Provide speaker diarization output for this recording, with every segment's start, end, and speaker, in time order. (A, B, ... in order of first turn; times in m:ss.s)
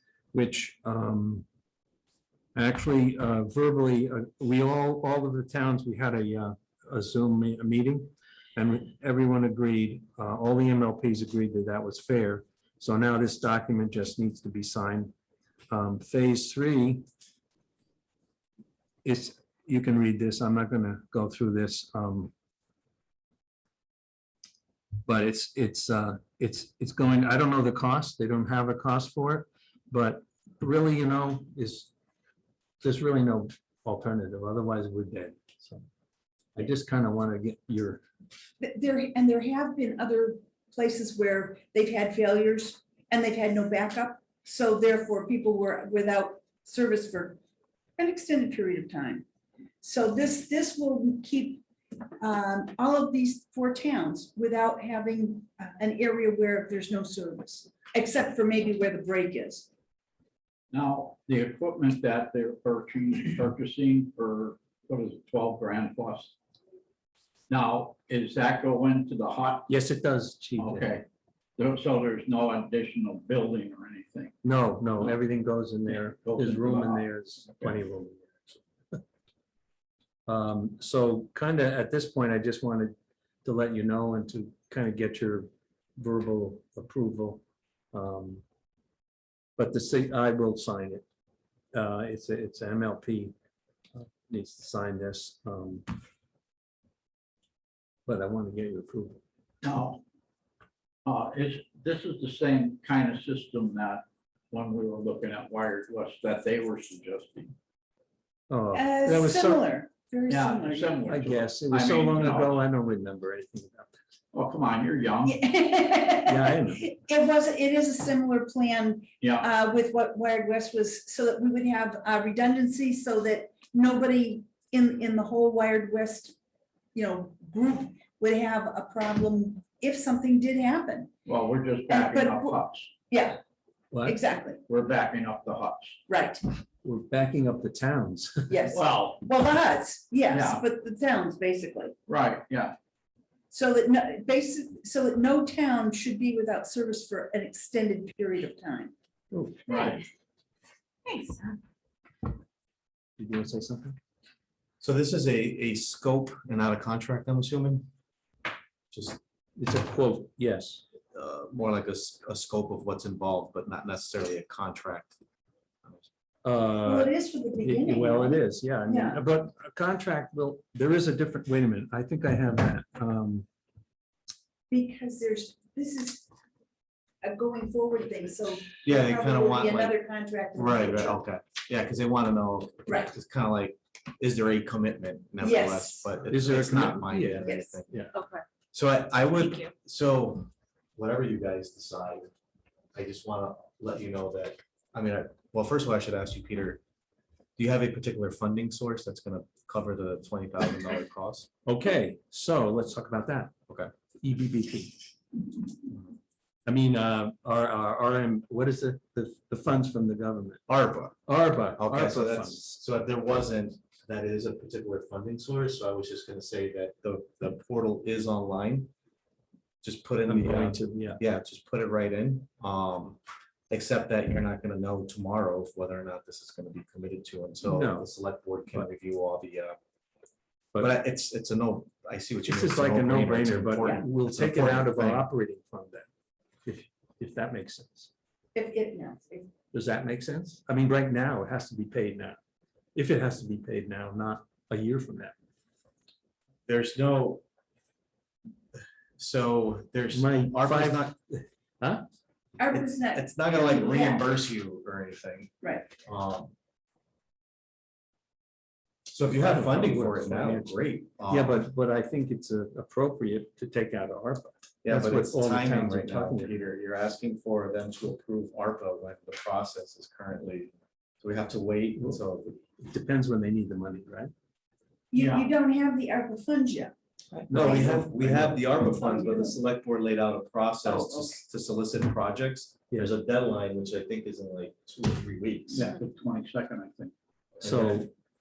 0:00.3-0:01.4 A
0:02.5-0:15.1 A
0:15.7-0:17.0 A
0:19.0-0:22.3 A
0:25.0-0:31.9 A
0:32.8-0:35.8 A
0:36.6-0:38.0 A
0:38.6-0:47.4 B
0:48.0-0:49.2 B
0:49.8-0:51.6 B
0:52.2-0:59.7 B
1:00.7-1:06.3 C
1:07.5-1:09.7 C
1:09.7-1:10.9 A
1:10.6-1:11.1 C
1:11.6-1:14.4 C
1:14.4-1:19.0 A
1:15.9-1:17.8 C
1:20.3-1:27.4 A
1:27.9-1:28.4 A
1:29.6-1:31.1 A
1:31.7-1:33.3 A
1:34.0-1:35.9 A
1:38.1-1:39.2 A
1:39.6-1:40.0 C
1:41.0-1:47.5 C
1:48.5-1:49.6 A
1:48.7-1:51.1 B
1:50.3-1:52.5 C
1:51.1-1:53.9 A
1:54.3-1:55.4 C
1:55.2-2:06.4 B
1:56.3-1:56.9 A
1:59.2-1:59.5 C
2:07.0-2:11.1 B
2:11.2-2:12.9 C
2:11.9-2:13.4 B
2:13.9-2:14.2 A
2:14.0-2:14.6 B
2:14.7-2:16.0 C
2:16.1-2:16.4 B
2:16.8-2:18.6 A
2:18.5-2:21.9 B
2:18.7-2:19.2 C
2:20.3-2:20.6 C
2:22.1-2:22.7 C
2:23.5-2:28.9 B
2:29.3-2:29.7 A
2:29.7-2:30.0 C
2:31.0-2:31.6 B
2:33.2-2:34.0 A
2:34.8-2:37.9 D
2:38.9-2:39.2 D
2:39.6-2:40.8 A
2:41.1-2:45.2 D
2:46.4-2:53.4 A
2:46.8-2:49.2 B
2:54.7-2:56.3 B
2:57.2-3:01.2 B
2:58.8-3:00.0 D
3:00.5-3:08.0 D
3:02.8-3:03.1 B
3:05.4-3:06.1 B
3:06.3-3:08.1 A
3:07.4-3:08.4 B
3:08.7-3:12.3 D
3:12.9-3:16.8 D
3:17.6-3:21.5 D
3:21.6-3:23.5 A
3:24.2-3:25.0 A
3:26.7-3:30.6 A
3:30.7-3:31.2 D
3:31.2-3:32.8 A
3:31.8-3:38.9 D
3:39.8-3:49.8 D
3:40.3-3:41.2 A
3:47.6-3:48.1 A
3:50.8-3:55.3 D
3:52.5-3:56.1 A
3:56.6-3:58.1 A
3:58.5-3:59.5 B
3:59.7-4:02.4 A
4:02.9-4:05.3 A
4:06.7-4:07.4 D
4:09.2-4:11.1 D
4:10.1-4:12.0 A
4:12.6-4:14.3 B
4:12.7-4:16.5 D
4:15.6-4:15.9 B
4:19.1-4:21.6 D
4:19.3-4:20.8 A
4:21.3-4:26.6 A
4:24.8-4:32.6 D
4:32.8-4:34.3 A
4:35.1-4:36.9 B
4:35.2-4:35.5 C
4:37.5-4:38.6 A
4:37.5-4:45.9 D
4:38.8-4:39.6 B
4:40.8-4:41.3 B
4:45.7-4:47.1 C
4:47.6-4:48.0 D
4:47.6-4:48.1 A